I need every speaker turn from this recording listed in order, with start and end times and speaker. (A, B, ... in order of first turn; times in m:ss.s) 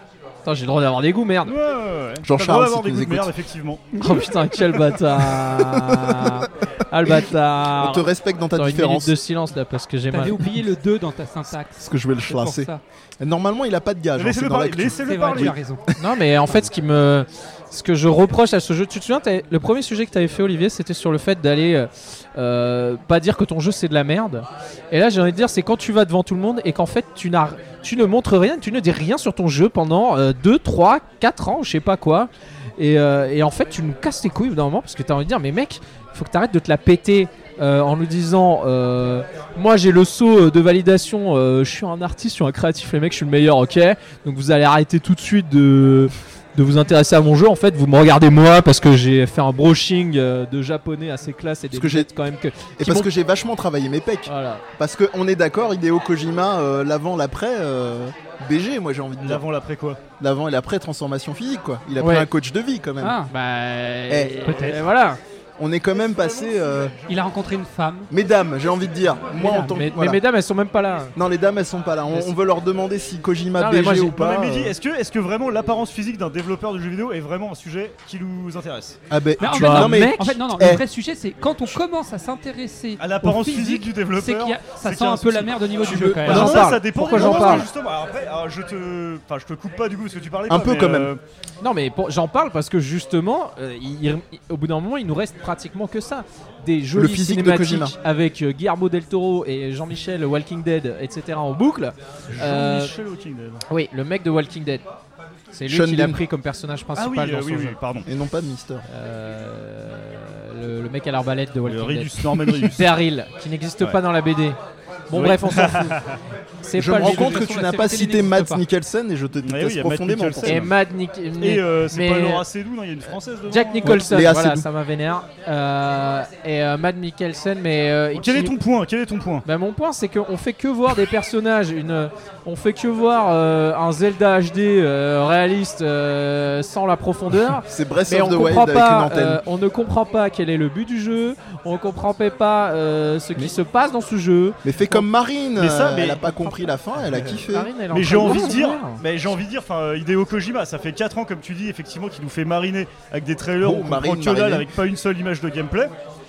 0:00.4-0:01.5 A
0:01.4-0:03.8 B
0:02.2-0:03.3 C
0:04.0-0:10.4 A
0:05.6-0:06.4 C
0:07.0-0:09.2 C
0:10.1-0:12.8 D
0:11.8-0:15.5 C
0:14.2-0:15.6 B
0:15.0-0:15.9 D
0:16.0-0:53.1 A
0:51.7-0:52.1 C
0:52.8-0:59.4 C
0:54.2-0:54.6 A
0:59.2-1:00.0 B
1:00.2-1:03.2 C
1:02.0-1:02.3 A
1:03.0-1:03.3 D
1:03.3-1:05.2 A
1:04.1-1:04.4 C
1:04.4-1:04.8 D
1:05.6-1:06.9 C
1:07.1-1:08.1 D
1:08.1-1:10.2 C
1:09.4-1:09.7 D
1:09.6-1:11.1 A
1:11.2-1:14.7 C
1:13.6-1:14.3 A
1:14.1-1:19.0 B
1:19.1-1:20.8 C
1:19.4-1:27.6 D
1:19.5-1:20.3 A
1:23.0-1:31.2 B
1:25.8-1:26.6 C
1:26.2-1:27.7 A
1:27.2-1:27.5 C
1:30.5-1:31.1 C
1:31.6-1:42.9 A
1:36.9-1:38.0 C
1:42.3-1:43.6 B
1:43.7-1:44.8 A
1:45.5-1:47.8 A
1:45.7-1:46.2 C
1:46.9-1:48.1 B
1:48.1-1:48.8 C
1:48.9-1:54.6 A
1:51.6-1:53.0 B
1:55.1-1:56.0 A
1:55.1-1:56.2 B
1:56.6-1:58.2 A
1:56.8-2:00.6 C
1:57.0-1:58.6 D
1:59.4-2:00.7 B
2:00.4-2:02.4 A
2:01.4-2:04.0 B
2:03.5-2:08.5 A
2:03.8-2:04.7 C
2:08.1-2:09.4 B
2:09.4-2:25.0 A
2:17.6-2:19.4 C
2:24.6-2:28.6 C
2:25.6-2:26.5 B
2:27.5-2:29.0 A
2:27.9-2:35.9 B
2:33.6-2:34.7 C